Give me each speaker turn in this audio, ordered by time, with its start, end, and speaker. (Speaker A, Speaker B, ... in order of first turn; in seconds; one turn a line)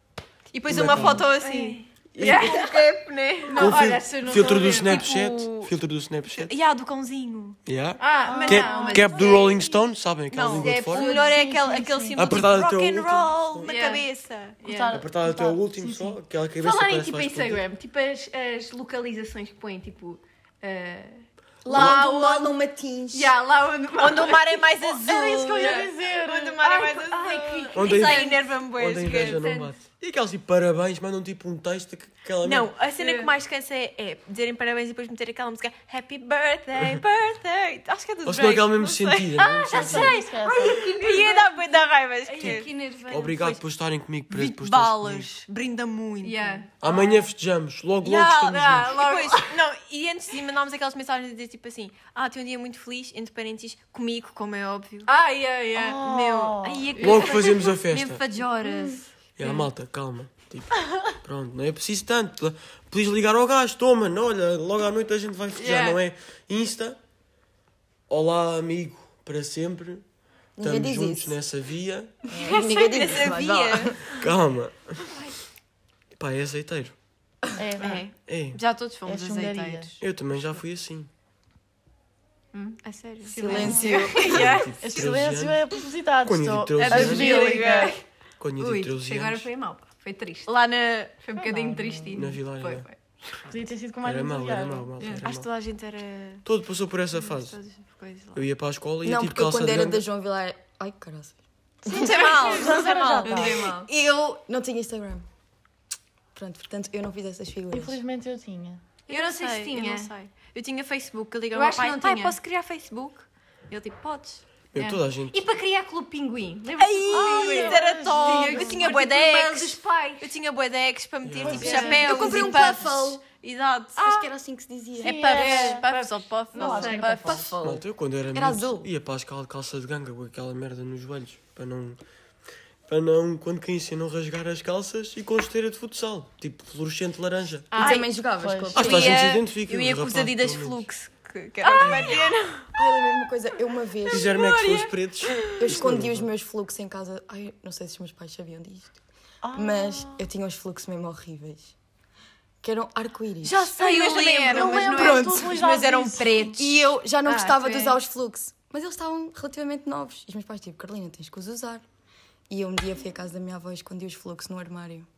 Speaker A: 0.5-5.7
Speaker B: 0.7-1.3
Speaker C: 1.4-5.1
Speaker B: 2.1-2.7
Speaker B: 3.5-6.5
Speaker A: 6.3-7.6
Speaker B: 7.7-11.1
Speaker C: 8.0-9.8
Speaker D: 8.2-9.4
Speaker A: 8.7-9.5
Speaker A: 10.3-14.6
Speaker C: 10.5-11.5
Speaker D: 10.9-12.2
Speaker B: 12.1-13.7
Speaker C: 13.6-14.1
Speaker C: 14.6-15.0
Speaker D: 14.6-16.2
Speaker B: 14.9-17.6
Speaker C: 16.6-24.6
Speaker E: 21.6-23.3
Speaker B: 21.7-22.0
Speaker A: 24.0-29.4
Speaker D: 24.8-26.9
Speaker C: 25.5-25.9
Speaker C: 26.6-28.5
Speaker B: 27.7-32.7
Speaker C: 29.2-29.7
Speaker A: 32.4-43.6
Speaker C: 33.0-33.3
Speaker B: 38.2-40.2
Speaker C: 39.4-41.7
Speaker D: 39.7-40.8
Speaker C: 42.3-43.5
Speaker B: 42.4-45.3
Speaker A: 44.3-47.0
Speaker C: 46.2-47.1
Speaker B: 46.8-49.0
Speaker A: 48.0-55.1
Speaker C: 48.5-49.5
Speaker C: 55.0-56.0
Speaker D: 55.7-56.9
Speaker A: 56.0-59.7
Speaker C: 57.0-57.5
Speaker B: 57.0-58.2
Speaker D: 58.7-58.9
Speaker B: 59.4-67.0
Speaker C: 65.5-66.0
Speaker B: 68.1-70.0
Speaker E: 70.6-71.4
Speaker B: 70.6-72.1
Speaker D: 72.3-72.6
Speaker E: 72.4-74.0
Speaker A: 72.5-74.3
Speaker B: 74.2-75.1
Speaker B: 76.1-76.9
Speaker D: 77.5-78.0
Speaker A: 77.8-80.0
Speaker B: 78.3-78.6
Speaker D: 79.0-79.9
Speaker B: 80.0-81.1
Speaker C: 82.5-85.0
Speaker A: 82.8-84.7
Speaker E: 83.3-84.6
Speaker D: 83.5-84.2
Speaker B: 84.2-85.6
Speaker D: 84.8-88.0
Speaker B: 86.2-87.5
Speaker A: 86.8-88.0
Speaker C: 87.0-88.0
Speaker B: 88.4-89.5
Speaker C: 88.6-90.5
Speaker A: 90.5-91.3
Speaker C: 91.2-93.0
Speaker D: 91.3-92.2
Speaker B: 92.1-92.8
Speaker D: 93.5-94.9
Speaker B: 94.0-95.5
Speaker A: 95.0-96.4
Speaker B: 96.4-97.6
Speaker A: 97.1-98.5
Speaker B: 98.3-100.0
Speaker E: 99.0-101.4
Speaker D: 101.8-103.7
Speaker A: 101.9-103.6
Speaker E: 101.9-102.2
Speaker C: 102.4-103.9
Speaker E: 103.5-105.2
Speaker E: 106.3-108.0
Speaker D: 107.7-108.8
Speaker C: 109.1-110.1
Speaker A: 109.1-114.4
Speaker C: 111.5-112.4
Speaker B: 114.7-115.4
Speaker C: 114.8-120.3
Speaker A: 116.8-124.3
Speaker D: 117.1-118.9
Speaker B: 121.2-121.8
Speaker D: 121.4-122.1
Speaker C: 121.5-122.8
Speaker E: 121.7-123.2
Speaker E: 124.0-125.2
Speaker A: 125.0-127.8
Speaker D: 125.0-125.8
Speaker C: 125.2-127.6
Speaker D: 126.5-127.4
Speaker B: 127.6-132.0
Speaker E: 128.3-128.9
Speaker B: 132.9-137.7
Speaker C: 137.7-138.0
Speaker A: 137.8-138.0
Speaker E: 137.8-139.4
Speaker D: 138.2-138.8
Speaker B: 138.7-140.8
Speaker A: 138.7-142.7
Speaker C: 141.7-142.0
Speaker B: 141.8-142.2
Speaker E: 142.7-144.3
Speaker B: 144.1-146.3
Speaker C: 144.2-144.9
Speaker A: 145.2-145.8
Speaker E: 145.6-148.9
Speaker D: 149.4-150.2
Speaker E: 149.5-151.7
Speaker E: 152.6-153.7
Speaker A: 153.4-156.8
Speaker C: 153.8-155.3
Speaker D: 154.5-156.6
Speaker E: 154.7-155.6
Speaker E: 156.6-161.8
Speaker C: 157.2-157.8
Speaker A: 157.6-157.9
Speaker E: 162.5-165.1